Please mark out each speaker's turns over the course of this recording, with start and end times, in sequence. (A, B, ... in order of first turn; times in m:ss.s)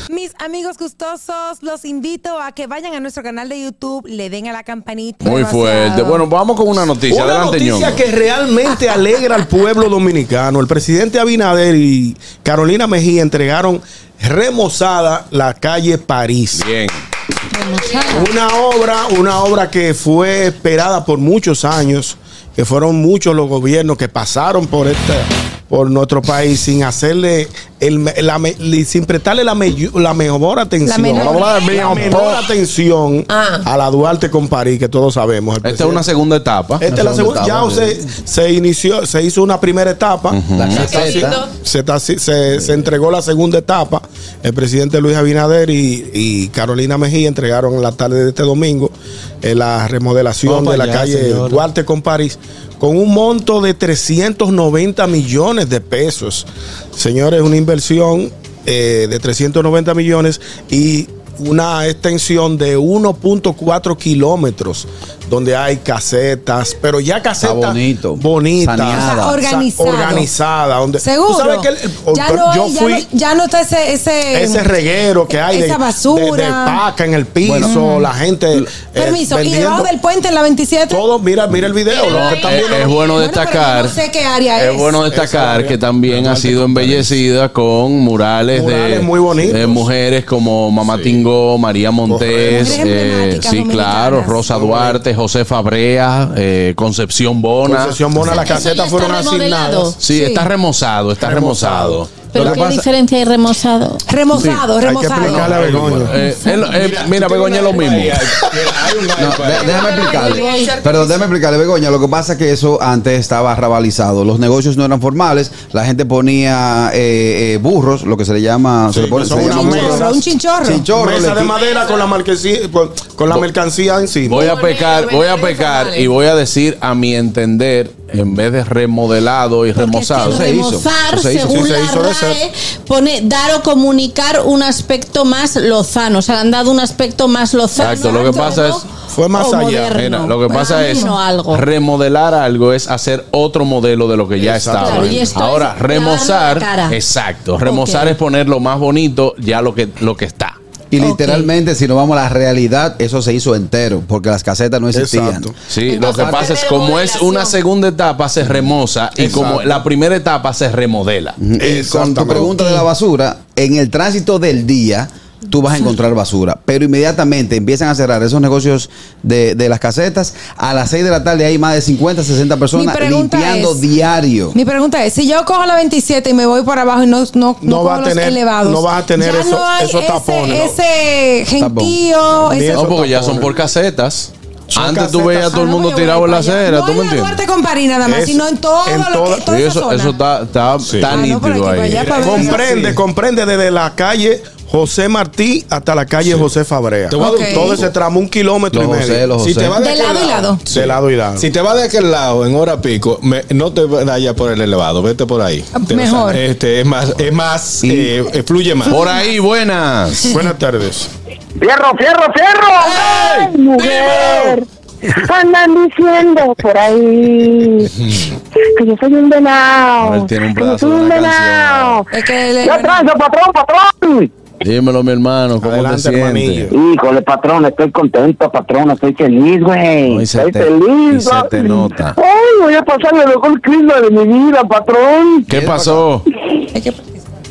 0:00.1-0:06.3 A
0:05.2-0:08.0 B
0:07.1-0:16.7 C
0:16.6-0:17.0 B
0:17.5-0:18.3 A
0:18.1-0:36.0 C
0:30.8-0:32.2 A
0:31.8-0:32.3 D
0:35.6-0:36.8 B
0:36.8-1:13.1 C
0:36.9-0:38.0 E
0:40.3-0:41.1 B
0:40.6-0:41.4 E
0:40.8-0:41.4 F
0:50.5-0:51.6 D
1:07.4-1:09.4 E
1:08.9-1:10.3 A
1:11.0-1:14.7 A
1:14.3-1:19.9 C
1:15.3-1:16.8 A
1:17.4-1:17.8 E
1:17.6-1:18.1 A
1:18.9-1:21.0 A
1:20.9-1:23.0 C
1:21.9-1:25.0 A
1:22.0-1:24.0 B
1:24.5-1:38.1 B
1:25.1-1:27.2 C
1:28.5-1:29.9 C
1:30.8-1:31.2 D
1:32.0-1:32.9 C
1:32.5-1:34.5 A
1:34.5-1:35.0 C
1:37.6-1:40.0 C
1:38.2-1:40.0 F
1:40.0-1:42.3 B
1:40.1-1:40.5 A
1:41.2-1:42.7 C
1:42.3-1:44.0 F
1:42.4-1:42.8 E
1:44.1-1:45.5 A
1:44.4-1:44.7 B
1:44.8-1:46.2 C
1:45.2-1:50.0 D
1:45.5-1:48.3 B
1:46.2-1:46.6 A
1:49.2-2:00.1 E
1:49.7-1:50.7 A
1:49.9-1:50.9 F
1:58.9-2:00.2 C
1:59.4-2:00.9 A
2:00.6-2:01.5 E
2:00.9-2:04.6 C
2:04.3-2:10.5 B
2:04.4-2:06.1 F
2:09.8-2:10.3 A
2:10.2-2:11.6 E
2:10.2-2:21.6 F
2:11.5-2:12.4 C
2:17.8-2:18.9 B
2:17.9-2:18.6 A
2:19.1-2:20.0 C
2:19.9-2:30.6 B
2:20.9-2:21.2 A
2:24.4-2:25.3 C
2:24.8-2:27.0 F
2:27.6-2:28.2 F
2:30.9-2:36.4 E
2:31.0-2:31.5 F
2:34.9-2:35.6 C
2:35.7-2:41.4 B
2:35.8-2:37.6 F
2:39.2-2:39.8 C
2:41.4-2:54.6 E
2:41.6-2:42.8 C
2:52.7-2:53.9 A
2:54.5-3:02.8 A
2:57.6-3:00.8 C
3:01.6-3:02.0 E
3:02.5-3:03.5 C
3:02.6-3:07.4 B
3:04.7-3:05.6 C
3:05.5-3:10.2 A
3:08.0-3:09.5 C
3:09.5-3:12.6 B
3:10.8-3:11.2 D
3:11.1-3:12.7 A
3:11.9-3:13.0 D
3:12.1-3:19.3 C
3:16.2-3:16.5 D
3:17.1-3:17.9 D
3:17.2-3:17.8 A
3:18.7-3:19.9 E
3:19.4-3:29.1 D
3:19.8-3:20.6 A
3:20.7-3:21.5 C
3:25.7-3:26.4 A
3:27.8-3:28.1 B
3:28.8-3:30.4 B
3:30.3-3:31.1 C
3:31.6-3:37.9 G
3:33.1-3:34.5 B
3:38.6-3:42.1 G
3:40.0-3:42.0 B
3:42.1-3:43.1 A
3:42.6-3:44.3 G
3:44.6-3:46.7 B
3:45.6-3:46.8 C
3:46.7-3:55.5 G
3:50.0-3:52.2 B
3:55.5-3:56.2 B
3:55.5-3:56.0 E
3:56.7-3:57.2 A